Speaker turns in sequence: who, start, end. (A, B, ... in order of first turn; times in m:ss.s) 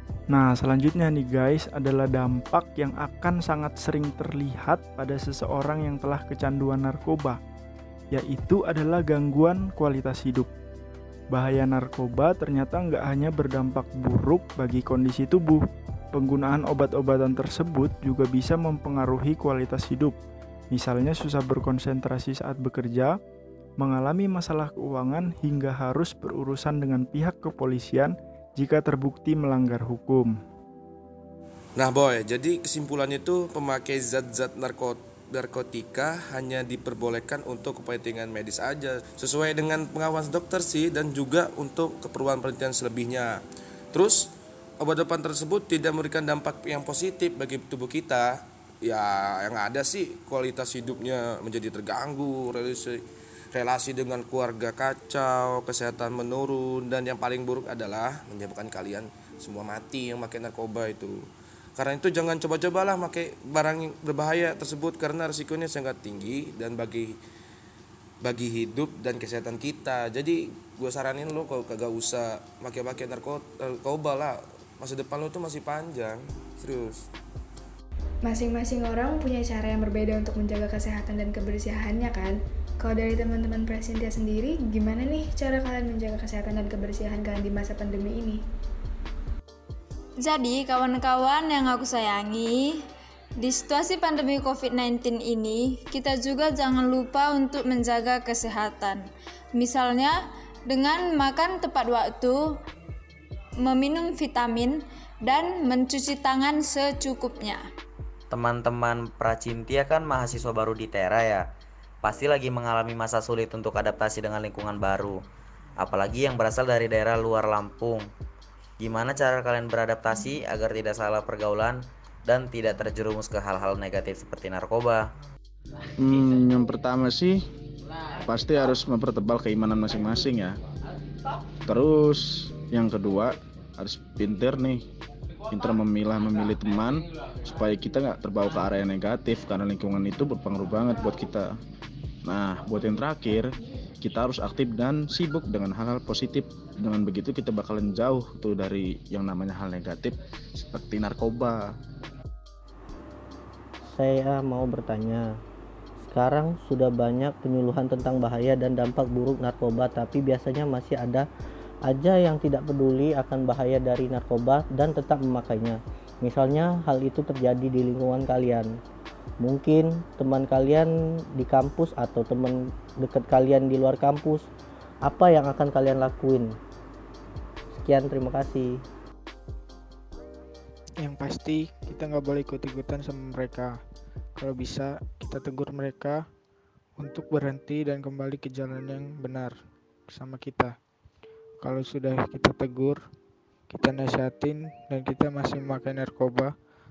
0:00.3-0:07.4 A
0:08.1-0:10.5 A
0:11.3-0:15.6 A
0:16.1-0:20.2 A
0:20.7-0:23.2 A
0:23.8-0:30.3 A
0:31.8-0:43.3 B
0:43.9-0:44.3 B
0:44.8-0:48.3 B
0:48.8-0:53.0 B
0:53.5-1:01.2 B
1:01.8-1:07.1 B
1:08.2-1:17.0 B
1:18.3-1:22.3 C
1:22.9-1:28.3 C
1:30.2-1:32.8 D
1:33.4-1:40.2 D
1:40.7-1:42.6 D
1:43.6-1:47.7 D
1:48.3-1:51.4 E
1:52.0-1:55.2 E
1:55.8-1:58.1 E
1:58.8-2:05.1 E
2:06.0-2:07.4 F
2:08.2-2:10.6 F
2:11.6-2:14.8 F
2:15.5-2:21.5 F
2:22.2-2:31.7 F
2:33.8-2:35.3 G
2:36.0-2:41.2 G
2:41.9-2:48.7 G
2:49.4-2:54.5 G
2:55.0-2:56.6 G
2:57.7-2:58.8 G
3:01.0-3:03.8 H
3:04.4-3:06.2 H
3:07.0-3:09.5 H
3:10.1-3:10.7 H
3:11.6-3:13.0 H
3:13.7-3:16.5 H